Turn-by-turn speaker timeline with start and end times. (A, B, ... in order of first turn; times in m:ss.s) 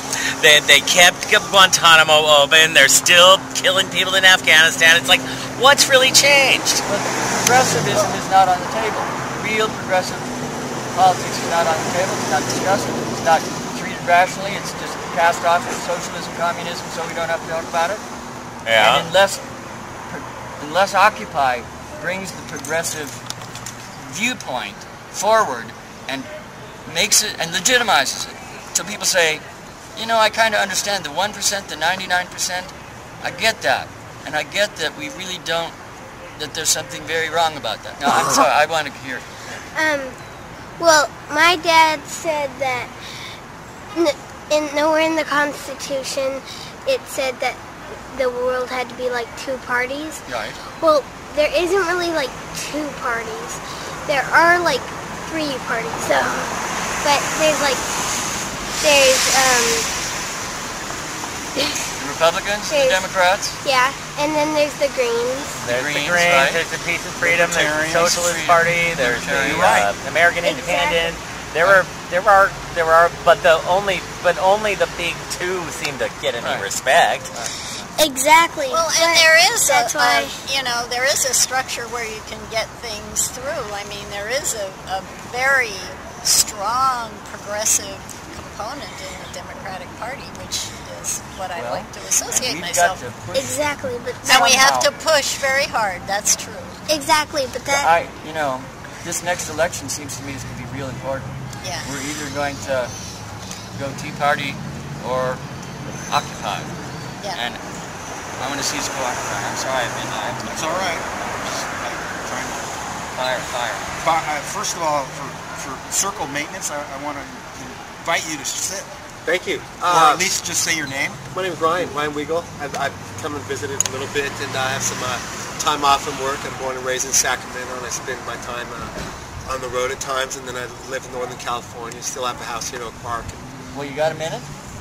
0:00.4-0:06.8 A
0:06.9-0:10.3 B
0:10.9-0:18.0 B
0:18.7-0:19.0 A
0:18.8-0:19.4 B
0:20.1-0:23.2 B
0:24.0-0:26.3 B
0:26.9-0:29.4 B
0:30.0-0:35.8 B
0:36.4-0:39.2 B
0:39.8-0:40.2 C
0:40.8-0:42.9 C
0:44.0-0:47.6 C
0:48.1-0:50.2 C
0:50.3-0:50.6 B
0:50.8-0:56.5 C
0:57.0-0:57.8 C
0:58.8-0:59.9 C
1:02.0-1:03.6 B
1:02.7-1:03.0 C
1:03.6-1:05.6 C
1:05.6-1:06.6 B
1:05.7-1:17.3 A
1:07.2-1:08.2 D
1:08.0-1:09.8 B
1:09.4-1:09.9 D
1:10.4-1:11.2 C
1:16.4-1:16.7 B
1:18.0-1:20.4 C
1:18.7-1:33.0 E
1:31.5-1:33.6 B
1:33.3-1:34.7 C
1:34.2-1:36.8 E
1:34.3-1:34.9 B
1:36.9-1:37.9 C
1:37.7-1:41.3 B
1:41.8-1:42.9 B
1:43.8-1:45.4 B
1:46.1-1:46.7 B
1:47.3-1:47.6 B
1:48.4-1:50.9 B
1:50.5-1:52.7 D
1:53.2-1:53.9 B
1:54.0-1:58.9 D
1:59.3-2:00.3 F
1:59.8-2:01.2 D
2:01.3-2:09.0 F
2:09.5-2:13.4 F
2:13.7-2:14.5 B